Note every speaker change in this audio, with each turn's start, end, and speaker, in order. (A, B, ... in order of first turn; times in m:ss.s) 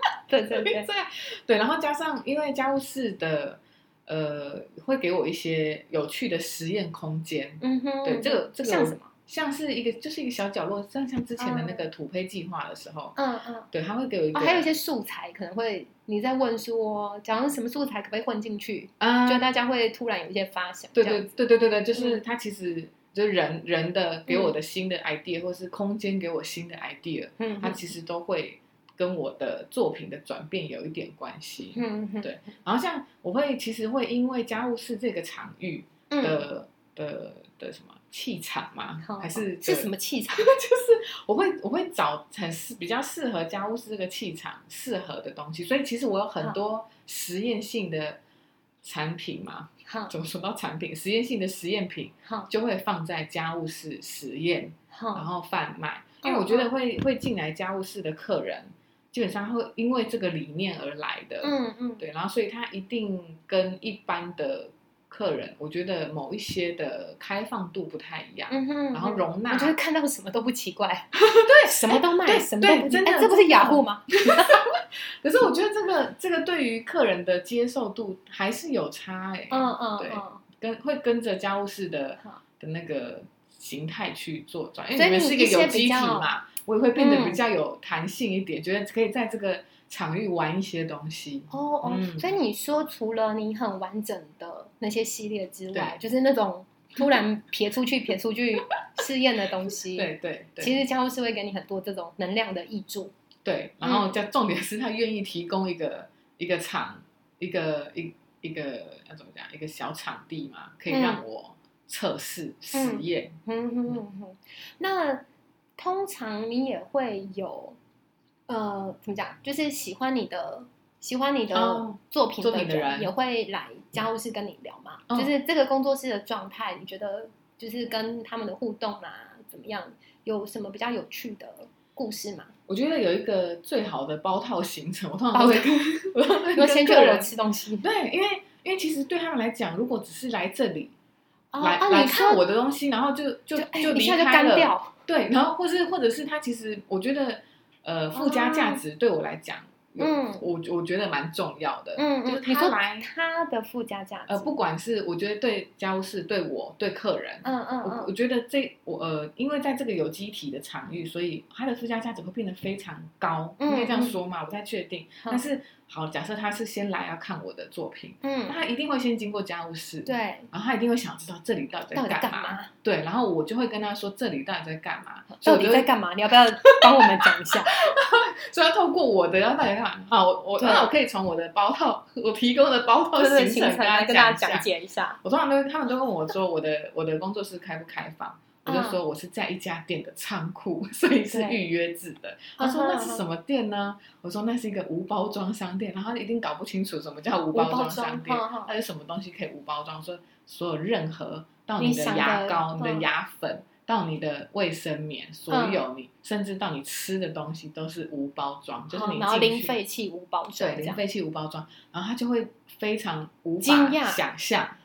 0:00.3-0:00.9 A
0:00.6-0:13.2 B
0:07.6-0:09.1 A
0:11.4-0:11.9 A
0:13.2-0:13.7 A
0:13.7-0:14.7 B
0:14.3-0:21.3 A
0:19.0-0:19.5 B
0:21.0-0:48.2 B
0:21.9-0:22.2 A
0:24.3-0:24.5 A
0:27.4-0:27.9 A
0:31.8-0:32.4 A
0:36.1-0:36.4 A
0:39.0-0:40.5 A
0:48.8-1:09.8 B
0:49.9-0:50.1 A
0:54.9-0:55.3 A
0:56.2-0:56.7 A
1:01.4-1:02.0 A
1:08.5-1:14.6 A
1:11.2-1:32.3 B
1:19.5-1:20.4 A
1:24.9-1:26.3 A
1:27.0-1:27.4 A
1:31.5-1:43.1 A
1:35.7-1:36.0 B
1:39.9-1:40.8 B
1:43.4-1:53.4 B
1:43.8-1:44.1 A
1:50.9-1:51.2 A
1:52.7-1:55.2 A
1:55.8-1:57.8 A
1:58.5-2:12.5 A
2:01.5-2:03.1 B
2:12.7-2:17.3 B
2:15.3-2:15.7 A
2:16.6-2:17.9 A
2:17.8-2:20.9 B
2:21.5-2:22.4 A
2:21.6-2:33.1 B
2:23.6-2:24.9 A
2:28.1-2:28.8 A
2:30.0-2:30.4 A
2:32.0-2:34.6 A
2:34.3-2:55.9 B
2:37.4-2:38.1 A
2:43.6-2:44.2 A
2:48.2-2:48.6 A
2:50.1-2:50.5 A
2:52.0-2:52.7 A
2:55.4-2:57.8 A
2:56.9-3:04.7 B
3:00.6-3:00.9 A
3:03.2-3:05.2 A
3:05.2-3:29.8 B
3:08.6-3:09.0 A
3:11.3-3:11.6 A
3:12.6-3:13.2 A
3:17.5-3:18.7 A
3:21.8-3:23.1 A
3:25.5-3:25.8 A
3:28.9-3:31.0 A
3:30.6-3:34.8 B
3:33.6-3:34.2 A